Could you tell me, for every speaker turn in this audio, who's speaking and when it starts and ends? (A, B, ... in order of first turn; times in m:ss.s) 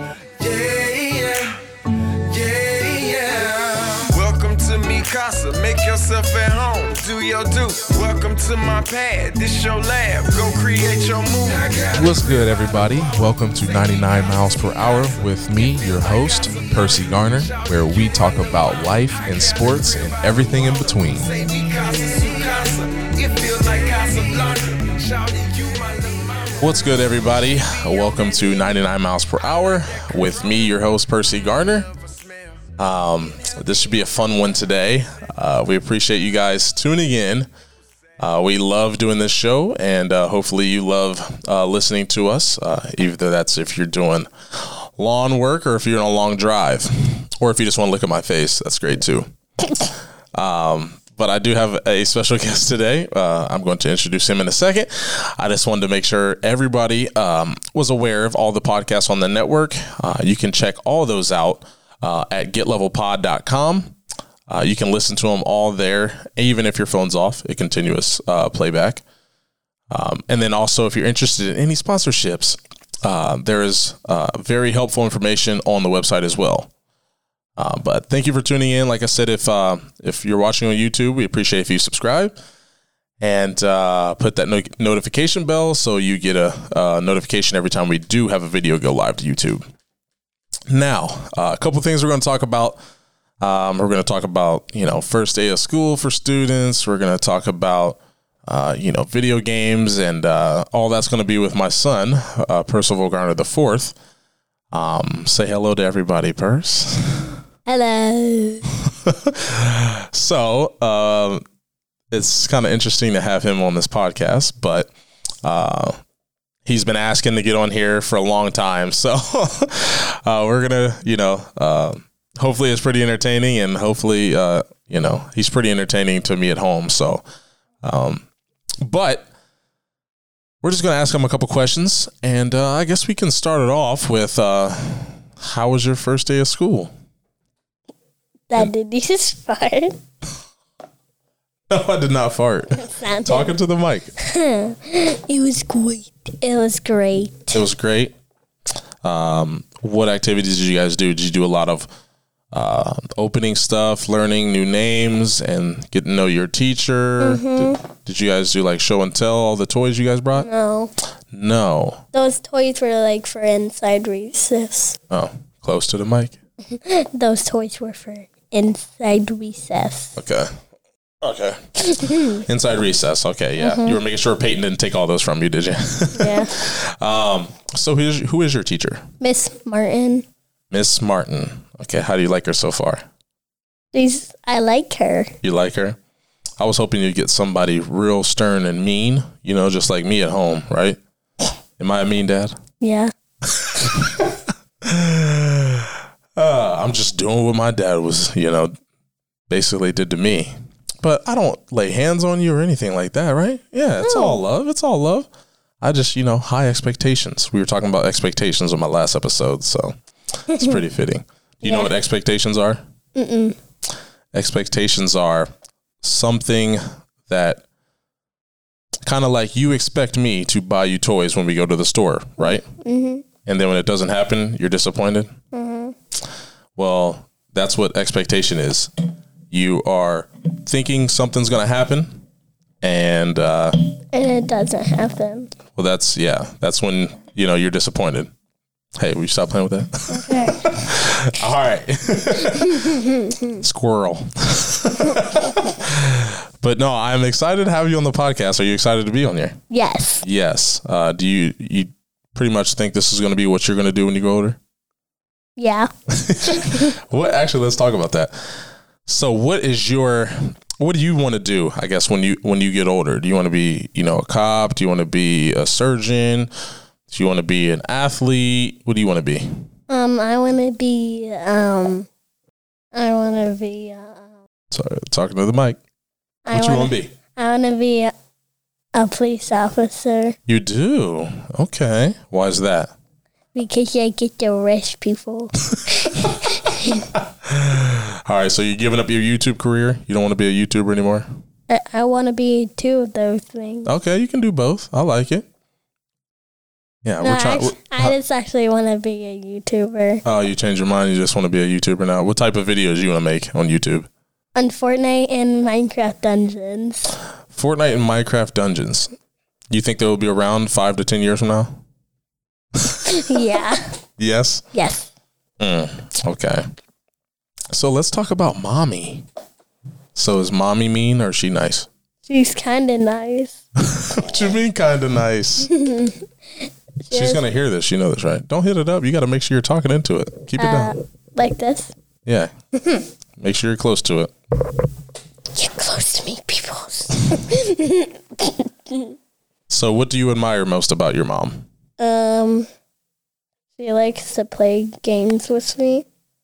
0:00.4-0:28.7 A
0:12.0-0:21.3 B
0:26.6-0:31.9 B
0:29.6-0:30.8 A
0:31.8-0:32.7 A
0:32.8-0:37.5 B
0:38.2-1:04.0 B
1:04.5-1:09.0 B
1:09.9-1:16.7 B
1:17.6-1:22.3 B
1:23.2-1:29.6 B
1:30.7-1:32.8 B
1:33.4-1:44.0 B
1:44.7-1:47.3 B
1:47.7-1:48.7 C
1:48.9-1:51.4 B
1:52.1-1:54.9 B
1:55.4-1:56.0 B
1:56.7-2:07.2 B
2:07.8-2:08.2 B
2:08.8-2:09.3 B
2:10.6-2:16.9 B
2:18.5-2:20.0 C
2:21.7-2:24.1 B
2:22.8-2:23.6 C
2:24.2-2:27.6 C
2:27.5-2:28.2 B
2:29.0-2:31.9 B
2:32.5-2:40.5 B
2:37.2-2:37.8 C
2:40.4-2:40.9 C
2:41.3-2:42.0 B
2:42.1-2:45.0 C
2:45.1-2:46.4 B
2:46.7-2:50.2 C
2:50.2-2:50.5 B
2:51.2-2:59.0 B
2:51.8-2:52.4 C
2:53.6-2:54.0 C
2:56.1-2:56.6 C
2:59.2-3:00.3 C
3:00.7-3:03.0 B
3:03.9-3:05.3 C
3:05.4-3:06.0 B
3:06.6-3:11.0 B
3:11.8-3:12.6 B
3:12.8-3:13.1 C
3:13.5-3:18.7 B
3:19.5-3:25.3 B
3:24.0-3:24.4 C
3:25.8-3:30.0 B
3:30.5-3:30.8 C
3:30.5-3:32.8 B
3:31.6-3:31.9 C
3:33.2-3:33.6 C
3:34.3-3:35.5 B
3:36.0-3:37.6 B
3:39.0-3:42.7 B
3:42.4-3:43.2 C
3:43.5-3:45.3 B
3:45.5-3:46.0 C
3:46.8-3:48.9 B
3:49.5-3:52.2 B
3:52.8-3:53.8 B
3:54.1-3:55.5 C
3:55.8-3:58.3 B
3:59.0-4:03.1 B
4:00.1-4:00.9 C
4:02.5-4:03.6 C
4:03.6-4:09.6 B
4:09.7-4:10.2 C
4:10.2-4:14.6 B
4:15.6-4:15.9 C
4:16.1-4:18.4 B
4:16.4-4:16.9 C
4:19.1-4:26.5 B
4:27.1-4:29.5 B
4:29.9-4:32.1 C
4:32.9-4:34.3 C
4:34.7-4:35.8 B
4:36.5-4:38.1 C
4:36.5-4:37.1 B
4:38.9-4:40.4 C
4:40.5-4:42.9 B
4:43.5-4:47.1 C
4:45.7-4:46.4 B
4:47.2-4:51.3 B
4:51.7-4:53.9 C
4:53.9-4:55.5 B
4:57.0-4:58.2 B
4:57.2-5:00.2 C
5:00.2-5:04.1 B
5:04.6-5:07.2 C
5:07.5-5:09.1 B
5:09.7-5:11.8 B
5:12.8-5:14.6 B
5:13.1-5:14.0 C
5:14.7-5:15.1 C
5:15.6-5:16.7 B
5:17.7-5:19.3 B
5:20.2-5:21.9 B
5:22.3-5:23.6 C
5:23.8-5:25.7 B
5:25.6-5:26.2 C
5:27.0-5:27.4 C
5:27.1-5:31.0 B
5:30.6-5:31.9 C
5:32.2-5:32.5 B
5:32.8-5:33.1 C
5:33.4-5:34.3 B
5:35.5-5:39.2 C
5:39.7-5:41.7 B
5:42.0-5:42.7 C
5:43.8-5:46.0 C